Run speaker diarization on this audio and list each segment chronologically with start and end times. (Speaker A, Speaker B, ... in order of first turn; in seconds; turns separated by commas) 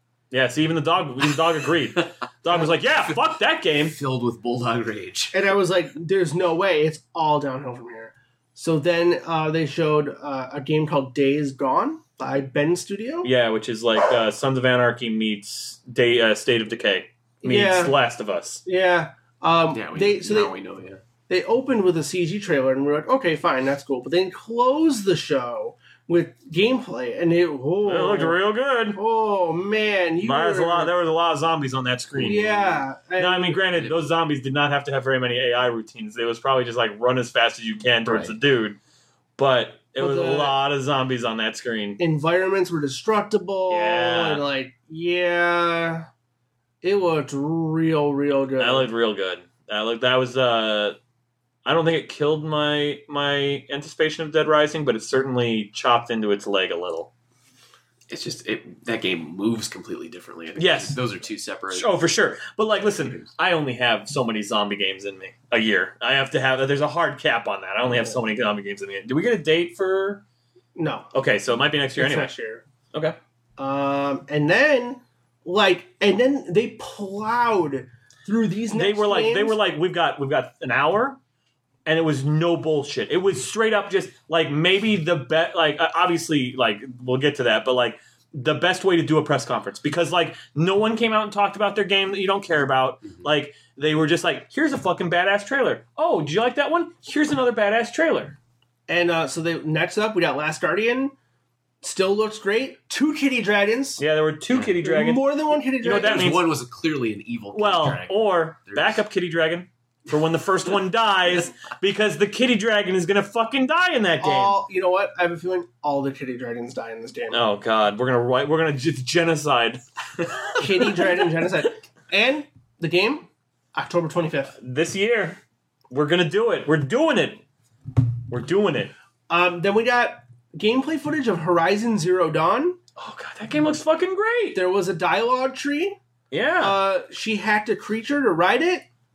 Speaker A: 0.3-4.0, Speaker B: 3.8-5.5, Speaker C: 5.3-13.3, Speaker A: 13.2-18.6, Speaker C: 17.4-18.0, Speaker C: 18.6-20.6, Speaker B: 19.7-21.0, Speaker C: 21.3-28.4, Speaker A: 27.9-29.0, Speaker C: 28.9-30.9, Speaker A: 30.2-38.8, Speaker C: 32.1-33.6, Speaker B: 33.8-34.0, Speaker B: 38.0-38.4, Speaker A: 39.4-42.0, Speaker C: 40.0-40.6, Speaker C: 42.0-46.1, Speaker A: 43.7-44.4, Speaker C: 46.8-48.9, Speaker A: 48.6-51.0, Speaker A: 51.6-57.1, Speaker B: 58.1-61.9, Speaker A: 60.6-61.0, Speaker A: 61.7-70.2, Speaker C: 70.8-71.1, Speaker A: 71.1-72.3, Speaker C: 72.0-72.7, Speaker C: 73.6-79.6, Speaker A: 78.7-81.2, Speaker A: 81.9-98.4, Speaker C: 98.9-101.2, Speaker C: 101.8-104.0, Speaker A: 104.0-106.5, Speaker C: 104.8-106.4, Speaker B: 105.9-109.0, Speaker A: 107.5-114.6, Speaker C: 114.2-117.4, Speaker A: 117.3-119.8, Speaker C: 120.6-124.6, Speaker A: 120.8-121.1, Speaker A: 124.6-125.4, Speaker A: 125.9-127.4, Speaker A: 128.3-128.9, Speaker C: 129.3-132.8, Speaker A: 133.0-134.6, Speaker C: 134.5-136.0, Speaker A: 136.3-136.8, Speaker C: 136.6-138.8